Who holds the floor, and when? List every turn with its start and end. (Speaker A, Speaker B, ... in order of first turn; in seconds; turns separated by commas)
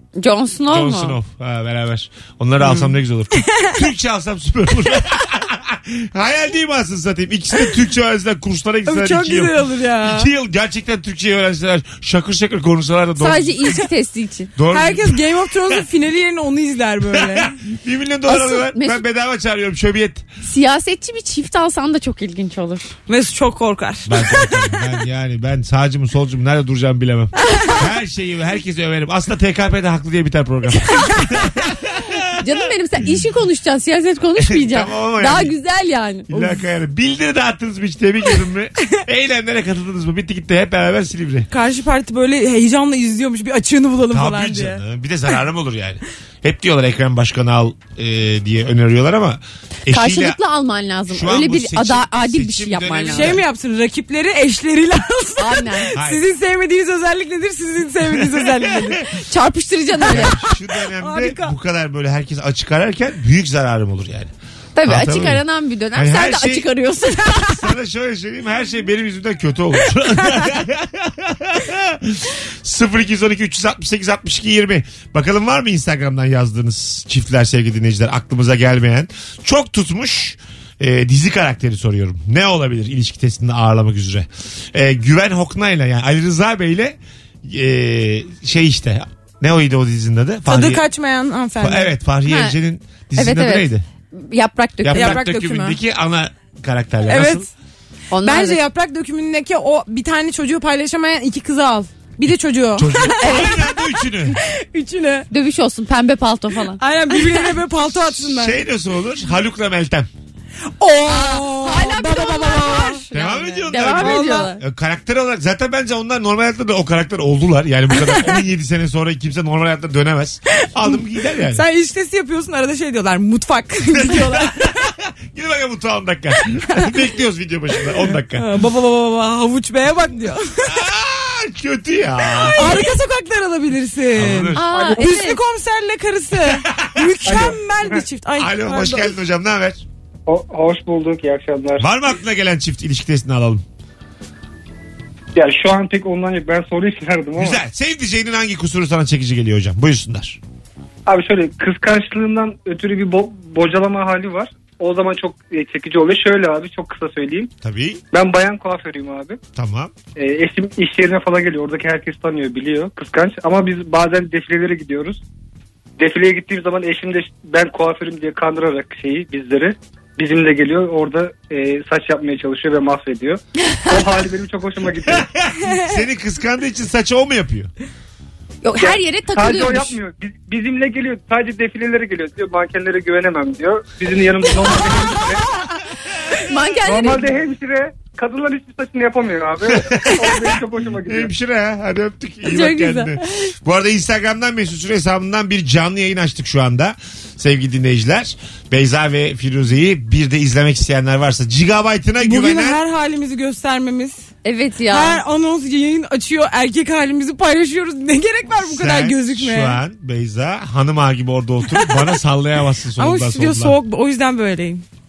Speaker A: 0.2-1.2, Speaker B: 0.7-13.8, Speaker C: 8.9-10.3, Speaker A: 13.2-14.5, Speaker B: 14.6-15.8, Speaker C: 14.7-17.6, Speaker B: 17.1-20.3, Speaker A: 18.3-19.0, Speaker A: 20.4-22.9, Speaker C: 23.1-24.4, Speaker B: 24.1-32.5, Speaker A: 27.5-27.8, Speaker A: 32.4-36.6, Speaker B: 34.4-35.5, Speaker B: 36.3-41.5, Speaker C: 41.5-44.8, Speaker B: 44.1-50.4, Speaker A: 49.9-53.4, Speaker B: 51.1-53.4, Speaker C: 53.1-59.1, Speaker A: 55.4-56.0, Speaker B: 56.0-56.2, Speaker B: 58.0-59.0, Speaker A: 59.1-60.4, Speaker B: 60.0-64.3, Speaker C: 61.0-61.5, Speaker A: 64.8-67.7, Speaker B: 64.8-65.4, Speaker B: 65.9-66.7, Speaker B: 67.4-90.8, Speaker C: 90.5-91.9, Speaker B: 91.6-93.9, Speaker A: 92.2-92.5, Speaker A: 93.2-95.2, Speaker B: 94.8-97.5, Speaker C: 94.9-95.8, Speaker C: 97.1-97.5, Speaker A: 98.1-98.6, Speaker C: 98.2-103.8, Speaker B: 102.8-104.4, Speaker A: 103.1-103.7, Speaker C: 104.3-105.3, Speaker A: 105.3-107.5, Speaker C: 106.8-108.6, Speaker B: 108.2-110.1, Speaker C: 110.8-113.0, Speaker A: 111.0-114.6, Speaker B: 113.1-121.6, Speaker C: 113.7-114.5, Speaker C: 121.5-124.8, Speaker B: 123.9-128.5, Speaker C: 128.3-130.8, Speaker B: 130.6-132.9, Speaker C: 132.4-139.1, Speaker A: 132.6-132.8, Speaker B: 134.1-134.7, Speaker A: 134.5-135.4, Speaker D: 134.7-135.1, Speaker B: 136.5-137.2, Speaker D: 137.2-137.6, Speaker B: 138.4-139.8, Speaker D: 140.3-141.9, Speaker B: 141.8-143.6, Speaker D: 145.3-147.6, Speaker B: 147.4-150.4, Speaker D: 151.1-157.5, Speaker B: 157.6-158.0, Speaker D: 158.1-159.4, Speaker B: 159.6-159.9, Speaker D: 160.2-165.2, Speaker D: 166.0-175.3, Speaker B: 175.1-177.7, Speaker A: 178.6-180.0, Speaker D: 178.8-185.4, Speaker A: 186.3-187.3, Speaker D: 186.8-191.3, Speaker B: 189.7-190.5, Speaker B: 191.0-202.8, Speaker A: 192.5-193.5, Speaker C: 202.2-204.3, Speaker A: 204.4-205.2, Speaker C: 204.9-209.8, Speaker B: 208.6-213.8, Speaker C: 211.7-212.2, Speaker C: 213.0-214.8